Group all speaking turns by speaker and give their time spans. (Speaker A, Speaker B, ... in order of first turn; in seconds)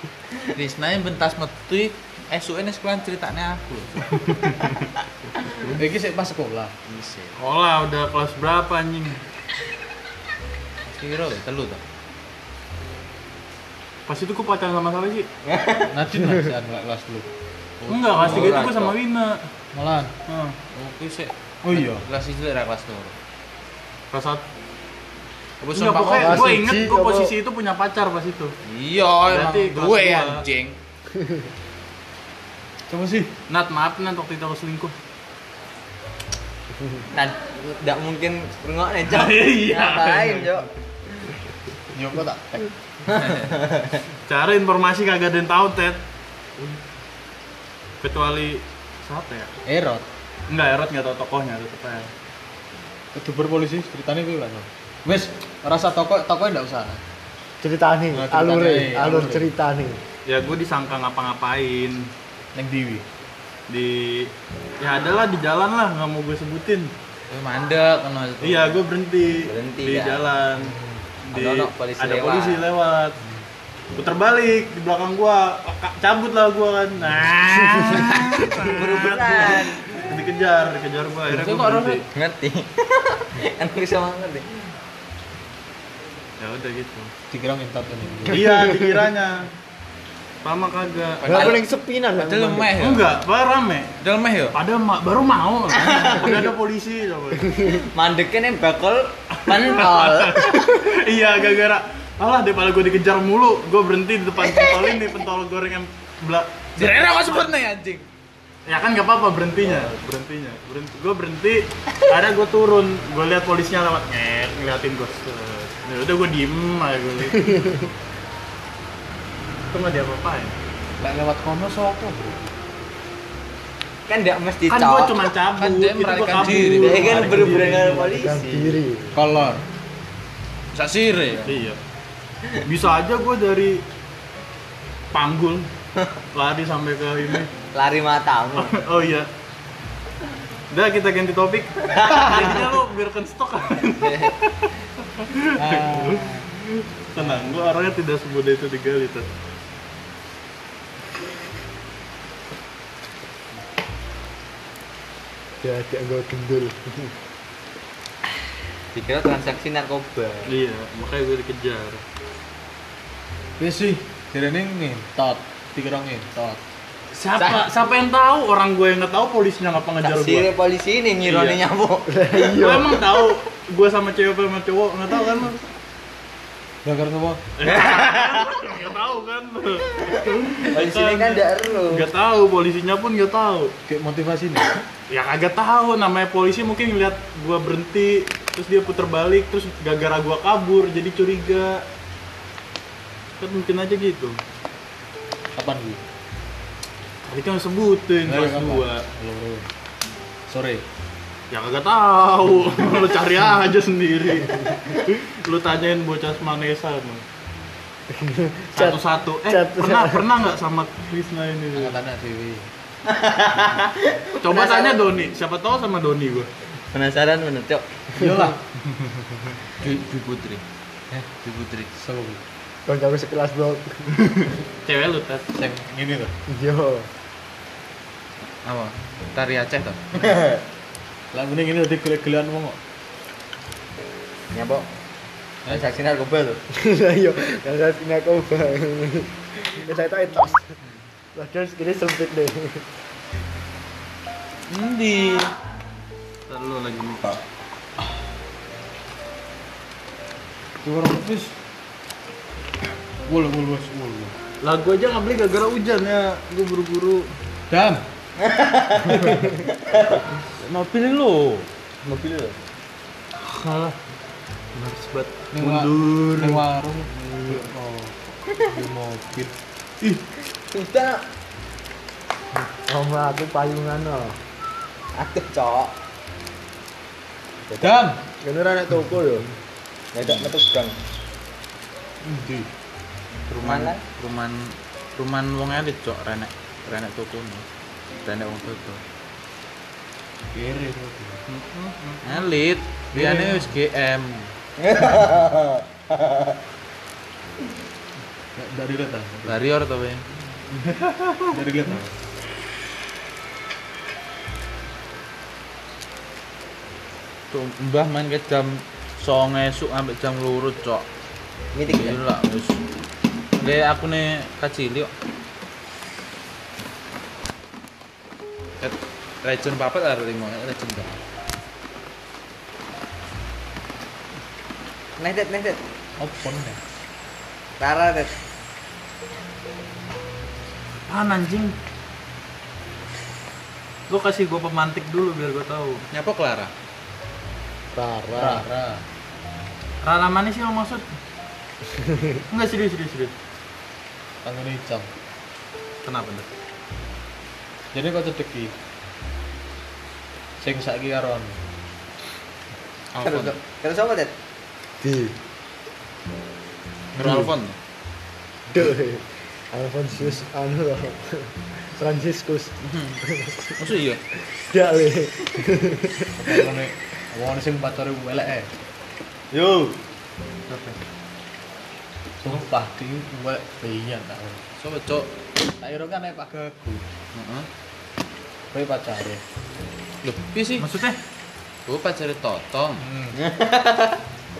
Speaker A: 0.5-4.5, 6.9-7.3, 10.9-11.8, 20.7-23.1, 25.6-26.4, 28.6-30.8, 67.3-68.8, 81.3-82.0, 91.2-93.2, 94.0-94.5, 106.8-108.0, 125.6-127.3, 130.7-131.7, 219.8-221.9, 228.6-230.3, 244.7-245.5, 260.6-261.7, 283.5-287.7, 288.2-289.0, 292.2-294.5, 299.4-300.2, 307.5-311.1, 311.9-312.8, 313.6-315.1, 318.8-321.1, 336.1-336.7, 346.0-346.4, 353.1-353.5, 357.2-357.8, 362.8-363.2, 363.8-364.2, 374.8-375.3, 377.3-377.7, 380.2-380.9, 381.9-383.0
Speaker B: 4.2-4.8, 7.3-9.2, 14.1-15.3, 17.9-19.4, 20.3-20.6, 24.1-24.4, 25.7-28.5, 29.3-30.4, 33.5-34.9, 39.0-40.7, 44.3-46.0, 48.0-49.5, 50.5-52.1, 60.3-62.0, 63.7-64.3, 64.8-66.9, 68.4-70.7, 71.3-73.2, 73.9-82.0, 86.4-87.1, 88.2-89.5, 90.4-91.5, 92.8-93.9, 94.5-97.6, 99.3-107.4, 108.7-117.8, 119.7-120.5, 124.7-128.0, 131.4-131.8, 132.6-133.8, 135.1-135.7, 136.3-137.5, 138.5-139.3, 140.7-149.2, 160.4-162.0, 167.1-170.5, 171.2-171.6, 172.5-175.6, 177.6-183.7, 185.1-191.8, 193.4-194.4, 197.2-199.0, 201.5-207.2, 208.7-211.9, 214.4-216.5, 224.8-225.5, 246.5-247.4, 254.6-257.3, 263.4-264.0, 264.7-266.6, 291.5-292.4, 331.1-331.7, 334.1-336.0, 340.0-341.0, 342.5-343.3, 380.8-381.1
Speaker C: 5.7-6.7, 15.9-17.3, 17.8-18.5, 19.7-20.1, 21.6-22.1, 32.9-33.3, 41.9-42.7, 49.6-50.0, 53.1-57.0, 58.1-59.5, 62.5-63.0, 70.6-71.0, 87.3-88.7, 121.0-122.4, 129.1-129.6, 145.6-146.4, 147.2-147.6, 163.6-166.6, 176.8-177.5, 183.9-184.7, 195.5-196.0, 198.2-199.7, 200.5-200.8, 211.7-212.7, 218.2-218.6, 221.9-222.4, 225.5-226.3, 231.3-232.8, 250.8-251.5, 253.2-254.3, 257.7-258.1, 265.5-268.1, 268.7-270.2, 277.8-278.2, 282.2-282.7, 290.5-291.4, 293.1-293.7, 298.5-299.6, 301.4-302.1, 326.2-326.8, 338.4-339.0, 344.4-345.1, 347.9-348.7, 350.6-351.6, 357.1-357.5, 366.4-368.7, 372.4-374.6, 375.8-377.0, 378.7-379.4, 383.0-383.4
Speaker D: 15.4-15.9, 18.2-19.0, 37.1-40.7, 43.1-43.8, 69.5-70.3, 71.3-72.7, 78.4-79.9, 82.1-84.5, 97.7-100.8, 104.4-105.0, 124.1-125.3, 126.8-128.8, 137.7-138.7, 141.9-142.7, 143.9-144.4, 158.9-160.5, 167.4-167.6, 170.0-172.2, 177.6-178.4, 180.6-182.1, 213.1-215.1, 216.9-217.9, 230.2-230.6, 234.5-234.9, 235.7-236.6, 258.4-260.2, 262.0-262.6, 270.6-271.2, 275.1-275.9, 277.7-277.9, 280.1-281.0, 283.6-284.0, 294.8-296.5, 311.7-312.2, 325.2-325.8, 327.8-328.3, 353.2-354.3, 383.3-384.2
Speaker E: 26.2-27.3, 31.1-31.5, 57.6-60.0, 91.2-92.7, 127.8-129.2, 155.6-157.1, 172.1-173.2, 208.1-210.3, 222.8-224.5, 226.5-227.1, 236.7-240.7, 241.3-242.9, 272.9-274.4, 278.4-279.5, 337.9-338.6, 342.0-342.3, 355.0-355.4, 358.7-363.7, 364.5-366.6